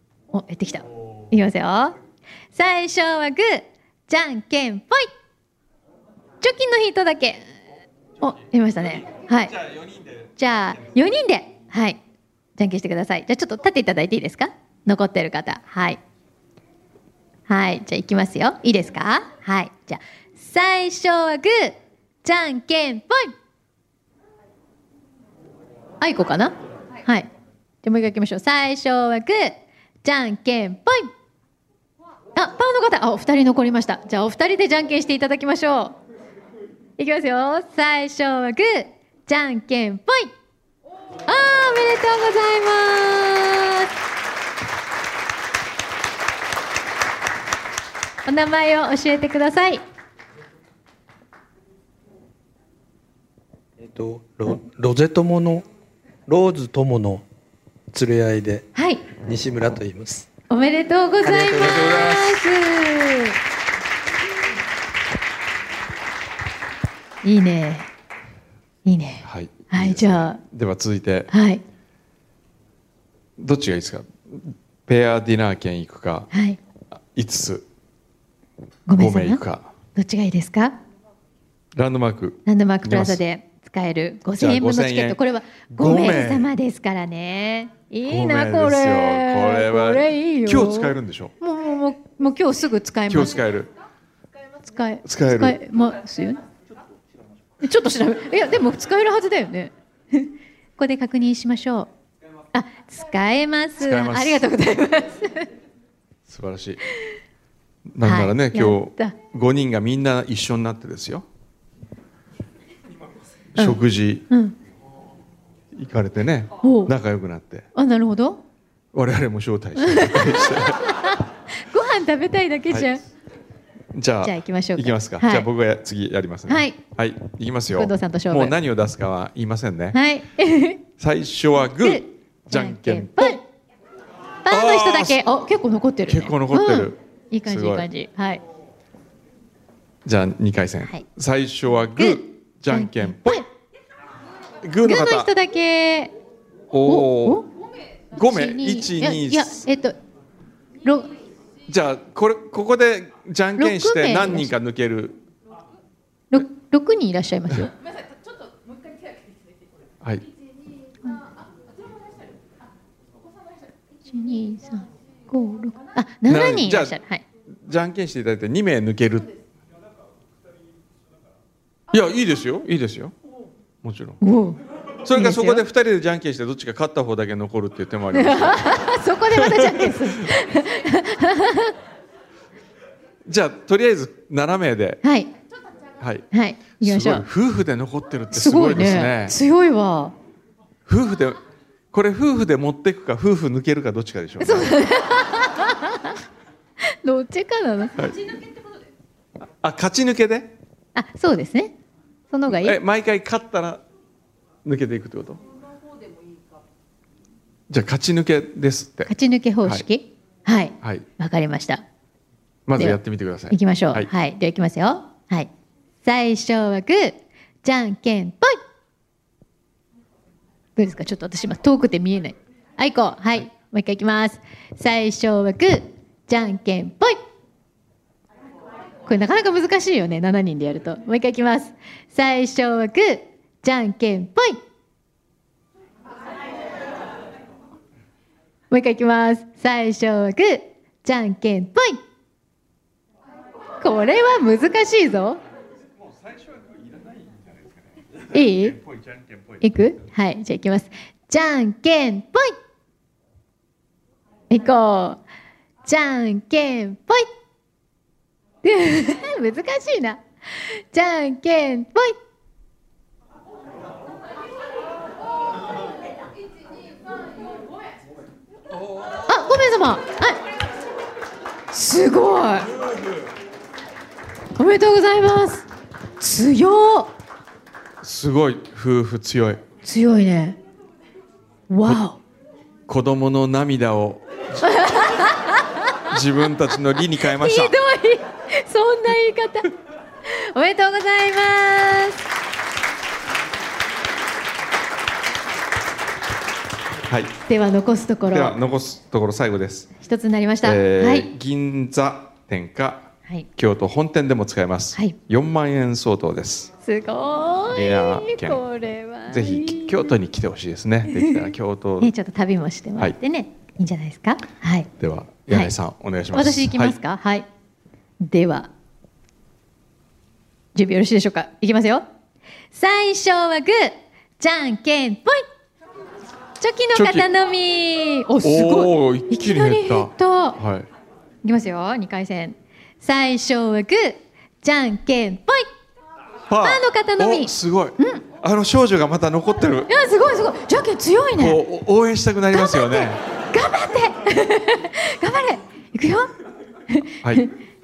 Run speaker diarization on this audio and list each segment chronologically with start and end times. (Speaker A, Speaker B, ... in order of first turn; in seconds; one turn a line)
Speaker A: 0.3-2.0
Speaker A: 2.5-5.1
Speaker A: 6.4-7.4
Speaker A: 8.2-9.6
Speaker B: 9.6-10.2
Speaker A: 10.4-12.0
Speaker A: 12.6-16.0
Speaker A: 17.5-23.3
Speaker A: 26.0-27.3
Speaker A: 27.8-31.1
Speaker A: 32.4-36.0
Speaker A: 37.0-40.3
Speaker A: 41.3-43.9
Speaker A: 48.3-49.8
Speaker C: 53.8-55.6
Speaker C: 56.3-57.3
Speaker C: 57.9-58.7
Speaker A: 58.8-59.0
Speaker C: 59.2-60.3
Speaker A: 60.5-63.4
Speaker C: 61.2-61.9
Speaker B: 61.5-62.5
Speaker A: 67.2-67.9
Speaker A: 68.8-70.4
Speaker B: 69.2-71.3
Speaker A: 71.3-71.6
Speaker B: 73.4-76.3
Speaker A: 76.3-76.6
Speaker B: 77.0-77.7
Speaker A: 78.9-79.4
Speaker B: 79.0-79.7
Speaker A: 80.0-80.8
Speaker B: 81.8-83.2
Speaker A: 82.5-93.5
Speaker B: 84.4-86.5
Speaker B: 88.0-91.3
Speaker B: 93.1-93.7
Speaker A: 94.6-96.4
Speaker B: 95.0-95.6
Speaker A: 97.6-101.9
Speaker A: 102.5-105.5
Speaker B: 103.8-104.5
Speaker B: 106.3-106.8
Speaker B: 107.9-111.3
Speaker A: 108.0-109.2
Speaker B: 113.5-114.3
Speaker A: 113.6-114.6
Speaker B: 115.7-117.7
Speaker A: 116.6-116.9
Speaker A: 117.8-118.4
Speaker B: 118.9-120.8
Speaker A: 119.8-123.0
Speaker B: 123.9-130.0
Speaker A: 124.2-125.5
Speaker A: 126.5-126.8
Speaker A: 127.7-128.6
Speaker A: 129.9-130.8
Speaker B: 131.0-133.4
Speaker A: 131.8-133.4
Speaker A: 134.5-138.4
Speaker B: 134.5-135.2
Speaker B: 136.1-137.9
Speaker B: 140.1-143.4
Speaker A: 142.0-143.5
Speaker B: 144.6-145.3
Speaker A: 144.8-146.1
Speaker B: 146.7-147.5
Speaker A: 146.9-147.5
Speaker B: 148.1-149.6
Speaker A: 148.1-150.0
Speaker A: 150.8-151.1
Speaker B: 151.7-155.2
Speaker A: 153.6-154.5
Speaker A: 156.3-157.7
Speaker B: 160.0-160.3
Speaker A: 164.1-167.2
Speaker B: 166.3-167.0
Speaker B: 167.5-169.4
Speaker B: 171.9-173.2
Speaker B: 173.8-174.2
Speaker A: 174.2-174.6
Speaker B: 175.1-180.4
Speaker A: 175.1-175.7
Speaker A: 178.1-181.7
Speaker B: 183.3-185.0
Speaker A: 185.0-185.3
Speaker B: 186.0-186.3
Speaker A: 186.3-187.3
Speaker B: 186.8-189.4
Speaker A: 188.3-190.2
Speaker B: 190.9-191.4
Speaker B: 191.9-194.8
Speaker A: 194.4-196.2
Speaker A: 196.9-198.1
Speaker B: 199.6-200.6
Speaker A: 200.9-201.7
Speaker A: 202.3-202.8
Speaker B: 202.5-203.8
Speaker B: 204.6-205.4
Speaker B: 207.7-209.1
Speaker A: 209.1-211.8
Speaker B: 212.7-214.1
Speaker A: 213.5-215.5
Speaker A: 216.0-218.6
Speaker A: 220.8-227.2
Speaker A: 229.1-234.6
Speaker A: 238.7-242.0
Speaker A: 243.8-245.4
Speaker B: 246.2-247.6
Speaker A: 248.3-248.8
Speaker A: 249.6-252.6
Speaker A: 254.5-255.2
Speaker A: 255.8-257.3
Speaker A: 258.6-262.2
Speaker A: 269.3-270.4
Speaker A: 271.7-272.7
Speaker A: 274.6-275.7
Speaker A: 276.2-277.1
Speaker B: 278.0-279.6
Speaker A: 279.8-280.6
Speaker A: 281.7-282.2
Speaker B: 282.9-284.6
Speaker A: 284.6-285.7
Speaker B: 286.1-287.8
Speaker A: 287.2-289.7
Speaker A: 290.3-292.2
Speaker B: 297.1-297.4
Speaker A: 297.5-298.6
Speaker B: 298.3-299.9
Speaker A: 300.0-301.3
Speaker B: 300.6-306.7
Speaker A: 306.8-310.0
Speaker B: 307.7-308.6
Speaker B: 309.3-312.1
Speaker A: 311.1-311.4
Speaker A: 312.0-314.9
Speaker B: 315.0-317.0
Speaker A: 316.3-317.5
Speaker A: 318.2-318.7
Speaker A: 320.8-322.0
Speaker A: 322.7-325.4
Speaker A: 326.6-330.6
Speaker B: 326.9-327.3
Speaker B: 328.4-330.9
Speaker A: 331.4-335.6
Speaker B: 336.5-339.9
Speaker A: 336.6-338.2
Speaker A: 339.9-341.6
Speaker B: 341.4-343.2
Speaker A: 342.5-346.3
Speaker A: 346.9-347.5
Speaker B: 347.2-347.5